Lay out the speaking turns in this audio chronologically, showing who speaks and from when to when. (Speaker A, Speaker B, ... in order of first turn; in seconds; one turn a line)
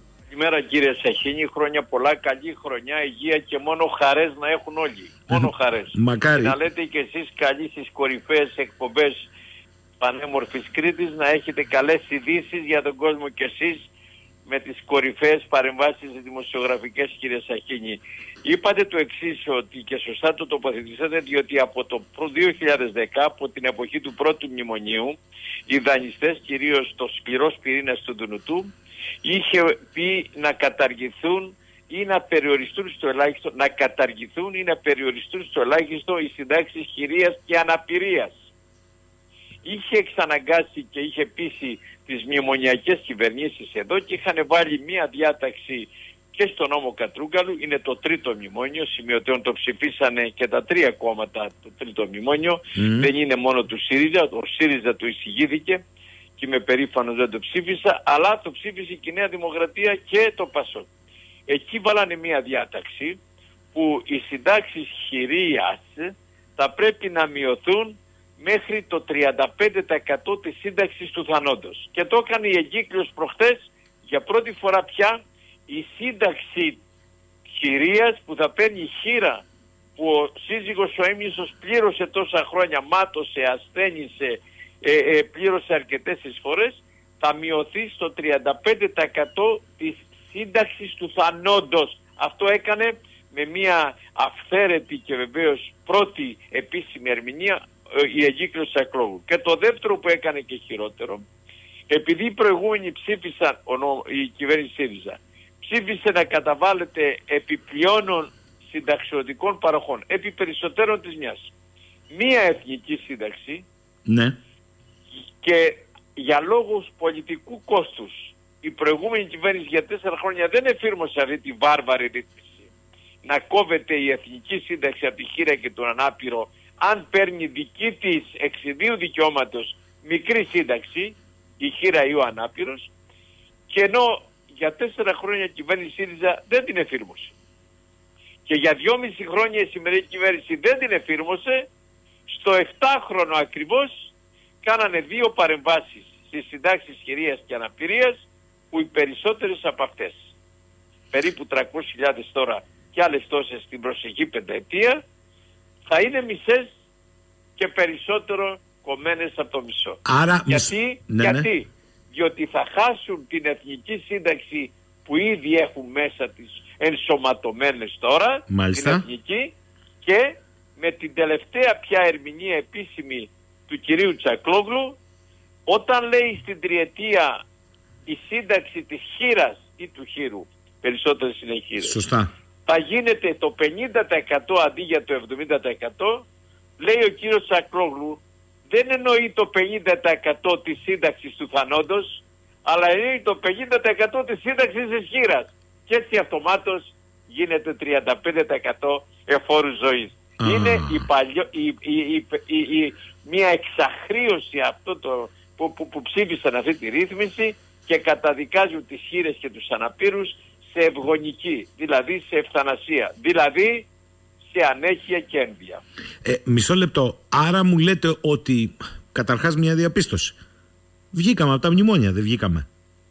Speaker A: 0.3-9.3
Speaker B: 5.3-6.6
Speaker A: 10.0-13.9
Speaker A: 14.5-28.7
Speaker A: 29.2-38.4
Speaker A: 39.6-55.8
Speaker B: 52.8-53.1
Speaker A: 56.4-60.9
Speaker A: 61.5-63.2
Speaker A: 63.7-76.8
Speaker A: 77.6-79.5
Speaker A: 80.0-101.2
Speaker A: 101.9-111.5
Speaker A: 112.1-113.7
Speaker B: 114.1-114.4
Speaker A: 115.4-122.7
Speaker A: 123.2-132.9
Speaker A: 133.7-137.3
Speaker A: 138.5-141.7
Speaker A: 142.3-144.1
Speaker A: 144.6-150.2
Speaker A: 151.1-155.0
Speaker A: 155.9-156.7
Speaker A: 157.6-175.0
Speaker B: 160.1-161.5
Speaker B: 168.5-169.1
Speaker A: 175.7-177.4
Speaker A: 178.1-182.0
Speaker B: 181.8-182.3
Speaker A: 182.7-186.3
Speaker A: 186.8-213.9
Speaker B: 200.4-201.0
Speaker A: 214.4-215.8
Speaker B: 216.2-220.4
Speaker B: 221.1-222.7